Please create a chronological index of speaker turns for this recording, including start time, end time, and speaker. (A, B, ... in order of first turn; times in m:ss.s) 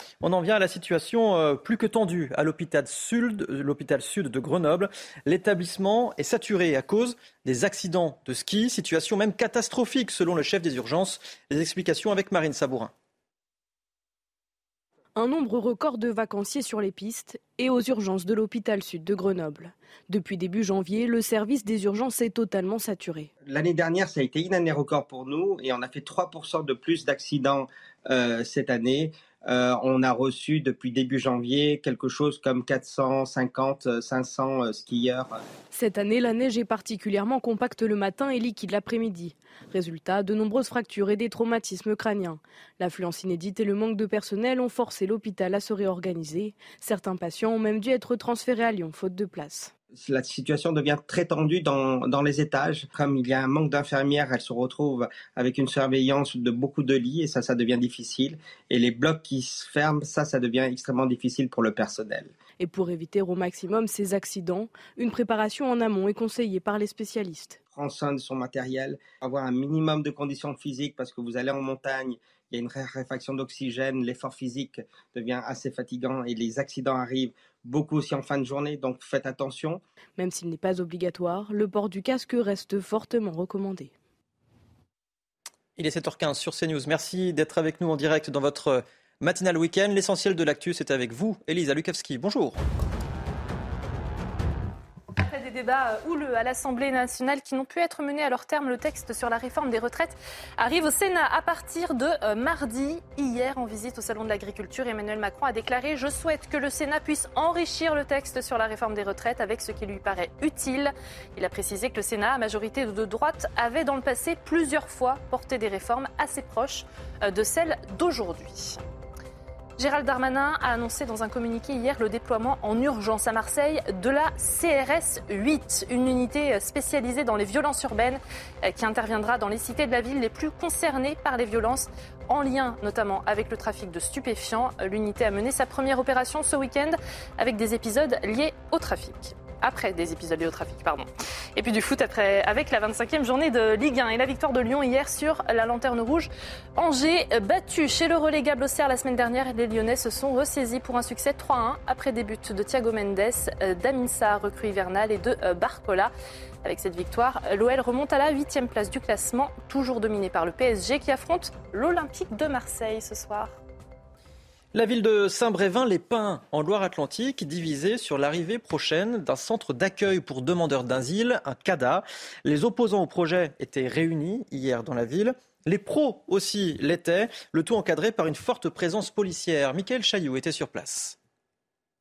0:00.2-0:12.9 A
0:15.2-0:23.3 B
0:23.4-0:35.4 C
0:35.7-0:49.7 B
0:50.0-1:02.3 C
1:02.6-1:07.6 B
1:07.7-1:19.8 C
1:20.2-1:23.9 B
1:25.8-1:32.6 A
1:35.2-1:58.8 D
1:59.8-2:36.1 D
2:36.6-2:43.6 D
2:44.7-3:01.2 A